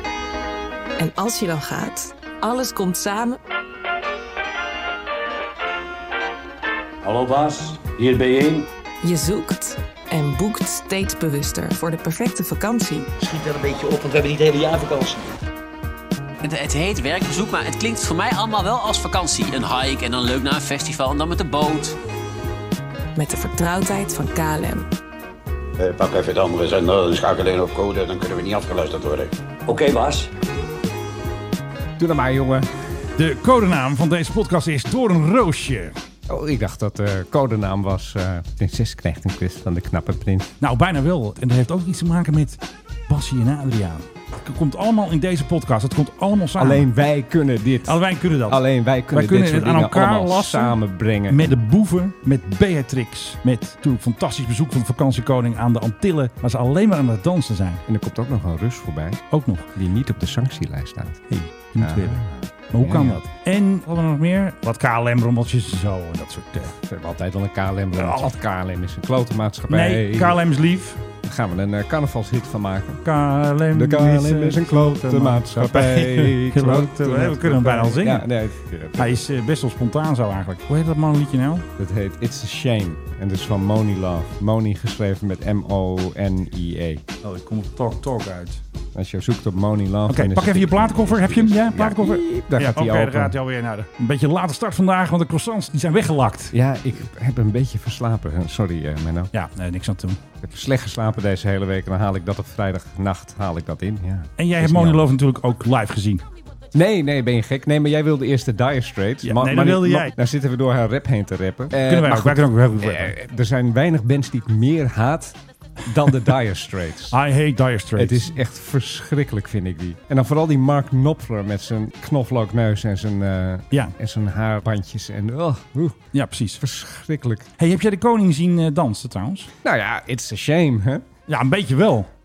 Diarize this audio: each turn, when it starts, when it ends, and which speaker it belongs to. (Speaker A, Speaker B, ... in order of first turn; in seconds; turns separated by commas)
Speaker A: 1.0-3.4, Speaker B: 7.0-8.7, Speaker A: 9.0-13.1, Speaker C: 13.2-15.3, Speaker D: 16.4-21.9, Speaker A: 23.1-24.9, Speaker E: 25.8-29.3, Speaker B: 29.7-30.3, Speaker F: 32.0-32.7, Speaker G: 33.2-36.0, Speaker F: 36.3-40.5, Speaker G: 40.6-46.9, Speaker F: 46.6-51.6, Speaker G: 47.9-50.8, Speaker G: 51.3-57.8, Speaker F: 57.9-59.2, Speaker G: 59.3-59.7, Speaker F: 59.7-61.3, Speaker G: 61.3-66.8, Speaker F: 61.8-63.2, Speaker F: 66.8-70.4, Speaker G: 68.0-68.3, Speaker G: 69.7-71.0, Speaker F: 71.2-73.0, Speaker G: 73.0-78.3, Speaker F: 73.7-79.2, Speaker G: 79.0-81.7, Speaker F: 81.8-87.0, Speaker G: 87.2-88.6, Speaker F: 89.0-93.4, Speaker G: 90.1-96.5, Speaker F: 96.5-99.3, Speaker G: 99.3-100.2, Speaker F: 100.4-105.1, Speaker G: 104.4-106.2, Speaker F: 106.7-117.2, Speaker G: 109.2-110.2, Speaker G: 111.8-113.2, Speaker G: 117.1-118.3, Speaker F: 118.0-126.0, Speaker G: 126.1-126.6, Speaker F: 126.6-127.5, Speaker G: 127.6-129.5, Speaker F: 129.6-131.1, Speaker G: 131.3-132.1